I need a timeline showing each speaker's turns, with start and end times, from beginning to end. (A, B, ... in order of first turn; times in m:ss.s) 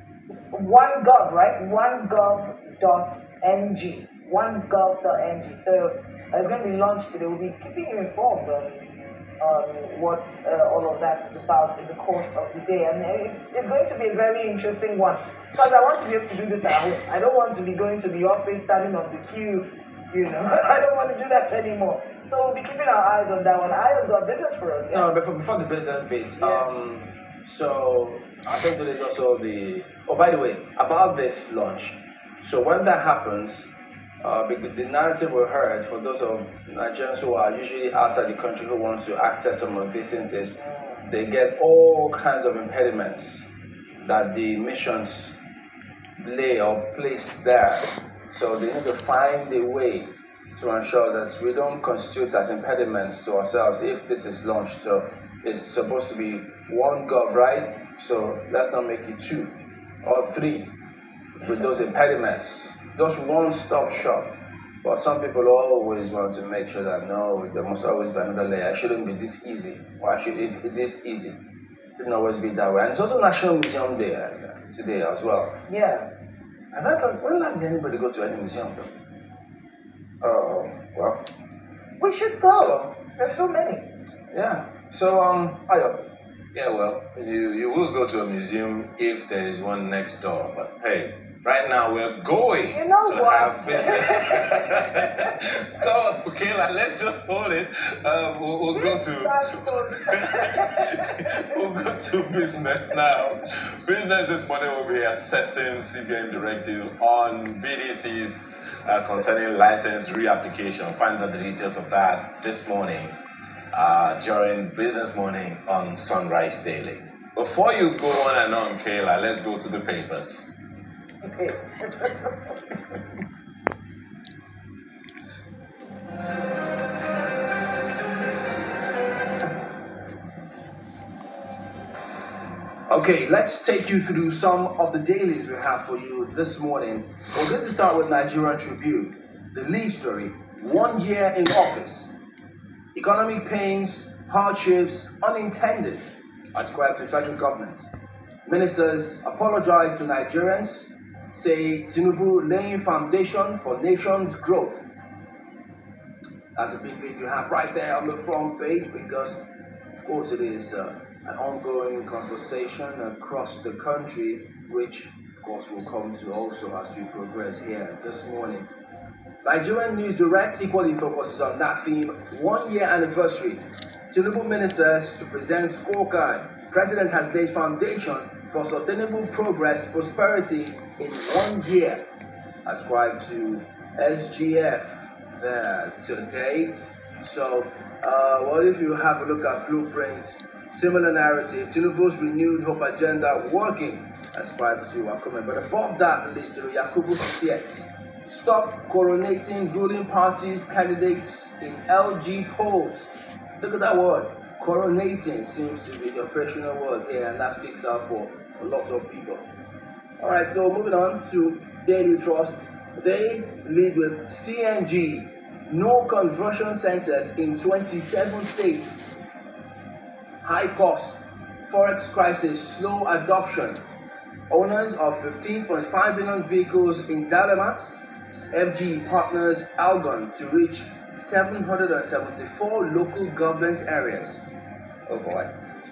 0:00.3-0:25.1 A
0:24.9-0:33.7 B
0:26.4-0:26.6 A
0:34.2-0:43.5 B
0:44.0-0:45.4 B
0:46.2-0:59.5 B
1:00.0-1:00.7 B
1:01.4-1:04.3 B
1:04.8-1:11.4 B
1:12.0-1:15.6 B
1:15.7-1:16.1 A
1:16.7-1:18.9 B
1:20.2-1:21.2 B
1:22.0-1:23.9 A
1:22.5-1:22.9 B
1:24.3-1:26.0 B
1:26.5-1:53.2 C
1:32.7-1:35.3 A
1:38.7-1:41.4 A
1:53.7-2:00.5 C
2:01.2-2:02.3 A
2:12.9-2:22.1 B
2:22.9-2:27.9 B
2:28.4-2:34.9 B
2:36.6-2:39.4 B
2:40.0-2:48.7 B
2:49.4-3:02.0 B
3:02.6-3:04.8 B
3:05.4-3:29.5 B
3:30.2-3:39.2 B
3:40.4-3:43.8 B
3:44.5-3:47.8 B
3:48.5-3:54.4 B
3:55.1-3:55.5 B